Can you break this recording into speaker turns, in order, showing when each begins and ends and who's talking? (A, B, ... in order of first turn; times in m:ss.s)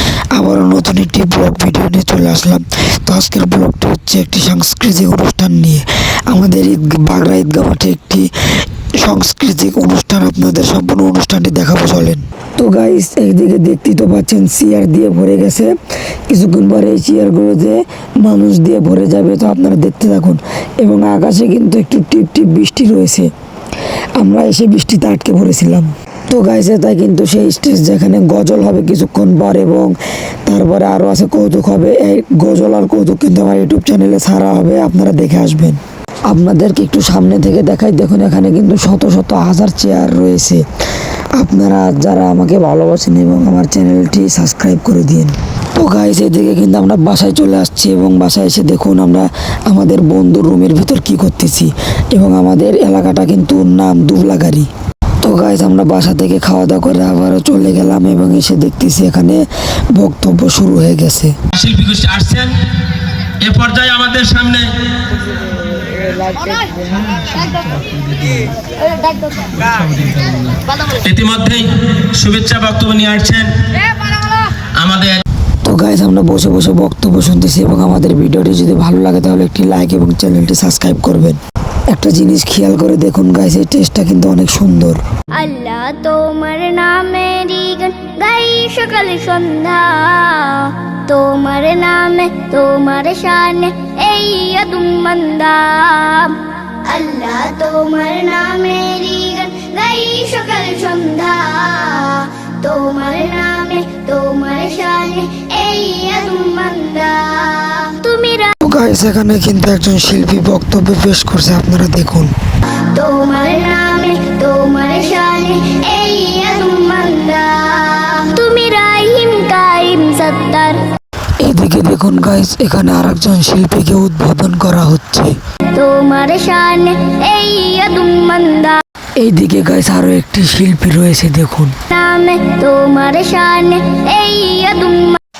0:00.3-0:08.3 A
0:09.0-0:15.7 A
0:16.3-0:23.3 A
0:24.2-0:40.6 A
0:41.4-0:54.7 A
0:55.2-1:01.3 A
1:01.6-1:02.6 B
1:03.4-1:04.7 B
1:07.1-1:08.5 B
1:09.5-1:13.5 B
1:14.8-1:15.2 B
1:15.6-1:21.4 A
1:21.9-1:25.0 A
1:25.4-1:48.5 C
1:48.6-1:52.3 A
1:52.9-2:00.8 C
2:01.4-2:05.3 A
2:05.7-2:08.8 C
2:09.2-2:11.7 A
2:11.9-2:15.2 C